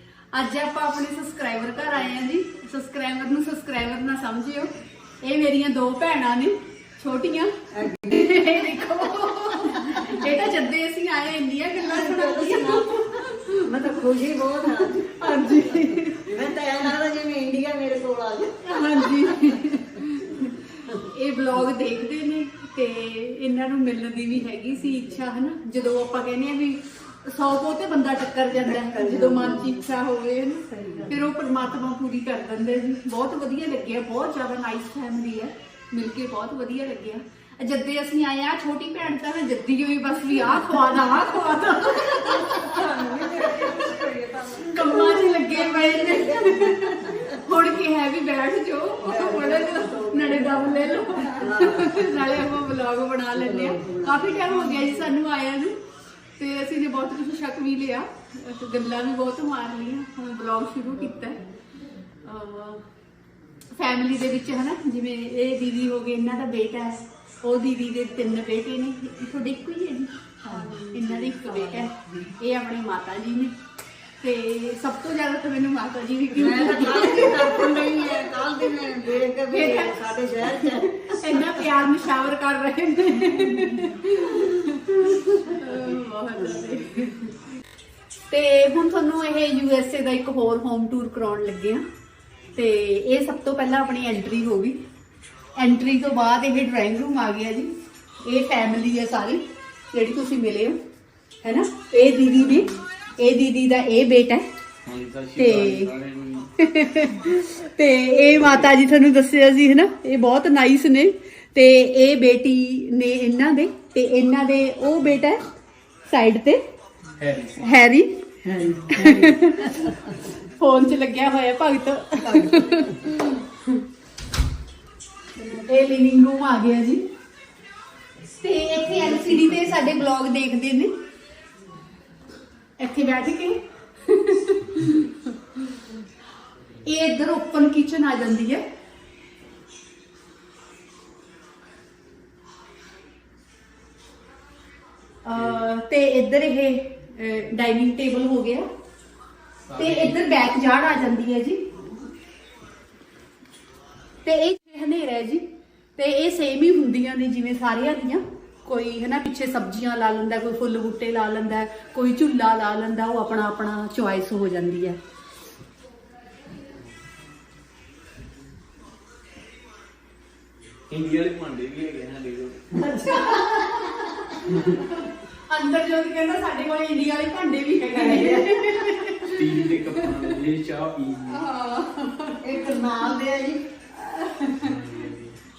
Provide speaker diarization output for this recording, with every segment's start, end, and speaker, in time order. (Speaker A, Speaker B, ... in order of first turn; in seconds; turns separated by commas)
Speaker A: 0.3-14.0, Speaker B: 7.7-8.6, Speaker B: 9.7-10.3, Speaker B: 11.8-13.0, Speaker B: 13.6-19.6, Speaker A: 14.6-16.4, Speaker A: 18.6-43.9, Speaker B: 28.6-29.8, Speaker B: 30.8-31.3, Speaker B: 42.0-47.4, Speaker A: 44.6-55.8, Speaker B: 49.0-52.6, Speaker B: 53.4-55.1, Speaker A: 56.4-61.4, Speaker B: 61.0-61.4, Speaker A: 62.2-62.8, Speaker A: 63.7-73.6, Speaker B: 70.4-72.3, Speaker A: 74.2-78.4, Speaker B: 76.3-81.8, Speaker A: 79.5-87.4, Speaker B: 83.4-83.8, Speaker B: 85.1-85.6, Speaker B: 86.4-86.7, Speaker A: 88.3-91.8, Speaker A: 92.5-94.8, Speaker A: 95.6-100.8, Speaker A: 101.4-104.5, Speaker C: 104.9-106.5, Speaker A: 105.4-105.9, Speaker A: 106.6-115.4, Speaker A: 116.1-116.6, Speaker C: 117.2-117.7, Speaker A: 117.6-118.3, Speaker B: 118.4-120.3, Speaker A: 118.9-119.9, Speaker A: 120.5-123.2, Speaker B: 122.2-123.3, Speaker A: 125.4-127.0, Speaker A: 128.3-130.9, Speaker B: 129.0-129.5, Speaker A: 132.8-135.6, Speaker A: 136.8-138.6, Speaker A: 145.2-148.7, Speaker C: 149.7-150.2, Speaker A: 149.8-151.7, Speaker A: 154.2-165.0, Speaker C: 170.9-172.8, Speaker A: 172.8-180.2, Speaker B: 172.9-174.1, Speaker C: 174.4-174.9, Speaker B: 177.9-179.1, Speaker C: 179.3-181.4, Speaker A: 181.3-183.2, Speaker B: 182.4-183.7, Speaker A: 183.9-184.8, Speaker C: 184.6-185.4